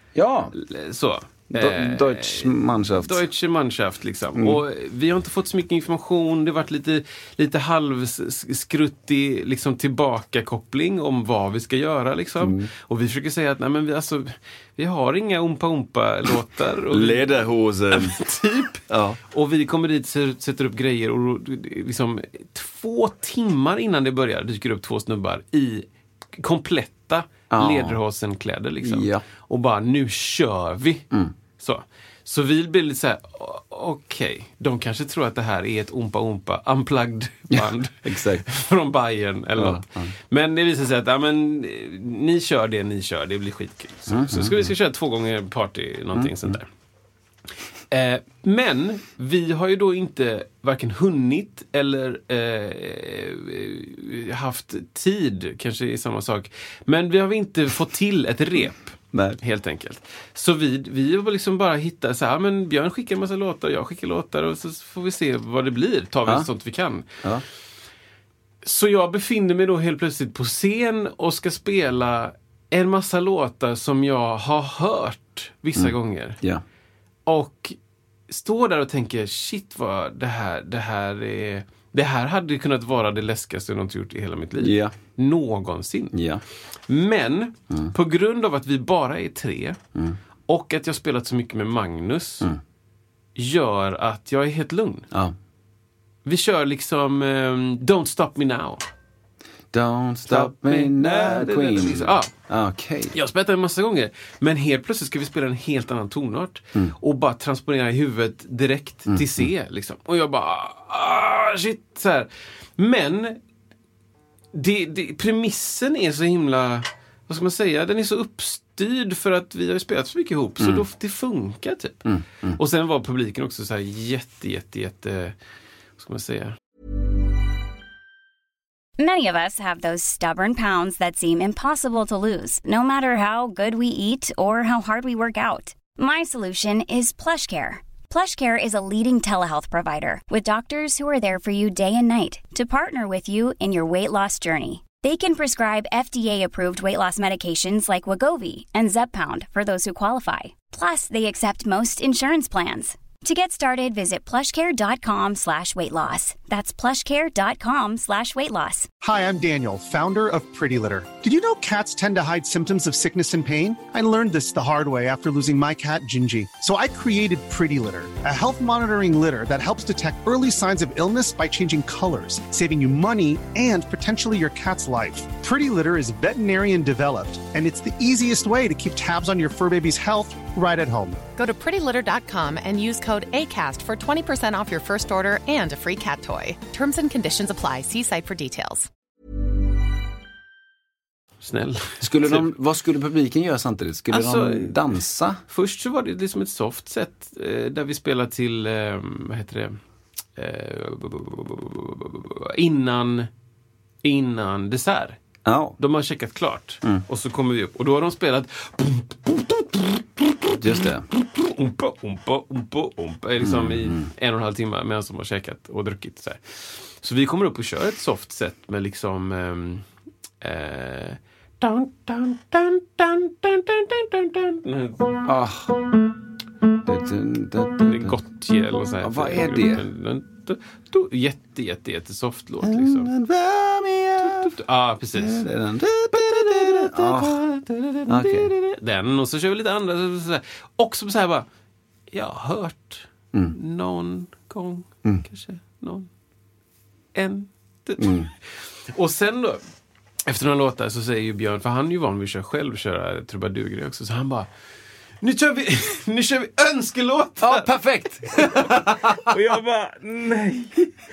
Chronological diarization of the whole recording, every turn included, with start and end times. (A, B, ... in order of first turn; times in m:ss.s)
0:00.2-0:00.5 A
0:00.5-0:17.4 B
0:01.5-0:03.2 A
0:04.4-0:04.6 A
0:12.4-0:12.7 A
0:16.9-0:18.2 A
0:17.9-0:31.1 B
0:18.9-0:19.2 A
0:27.5-0:28.0 A
0:28.8-0:29.2 A
0:31.6-0:46.7 B
0:37.5-0:38.4 A
0:39.6-0:40.1 A
0:44.1-0:44.7 A
0:46.1-0:46.6 A
0:47.9-1:07.2 B
0:59.1-0:59.4 A
1:08.6-1:16.4 B
1:15.8-1:16.6 A
1:17.3-1:17.8 B
1:18.3-1:26.2 B
1:24.6-1:24.9 A
1:26.1-1:26.4 A
1:26.9-1:29.8 B
1:30.5-1:32.5 B
1:33.4-1:35.1 B
1:36.2-1:38.8 B
1:39.7-1:43.2 A
1:40.3-1:42.3 B
1:43.1-1:53.4 B
1:49.1-1:49.5 A
1:54.6-2:05.4 B
2:00.6-2:00.8 A
2:02.0-2:02.6 A
2:06.0-2:06.6 B
2:09.0-2:38.9 C
2:39.0-3:01.2 D
3:01.4-3:08.9 E
3:11.4-3:12.5 B
3:12.0-3:15.4 A
3:14.1-3:14.8 B
3:15.5-3:19.8 B
3:20.4-3:23.3 B
3:24.0-3:25.2 B
3:25.4-3:25.8 A
3:25.8-3:39.8 B
3:30.5-3:31.1 A
3:33.4-3:34.1 A
3:40.4-3:45.2 B
3:45.2-3:45.8 A
3:46.8-3:48.2 A
3:47.8-3:53.1 B
3:49.0-3:49.8 A
3:52.6-3:54.5 A
3:54.3-3:55.5 B
3:55.2-3:57.4 A
3:56.1-4:01.5 B
3:58.1-3:58.5 A
4:02.1-4:06.1 B
4:07.1-4:09.6 B
4:08.0-4:08.3 A
4:10.3-4:14.5 B
4:15.2-4:17.7 B
4:17.4-4:19.3 A
4:18.3-4:20.9 B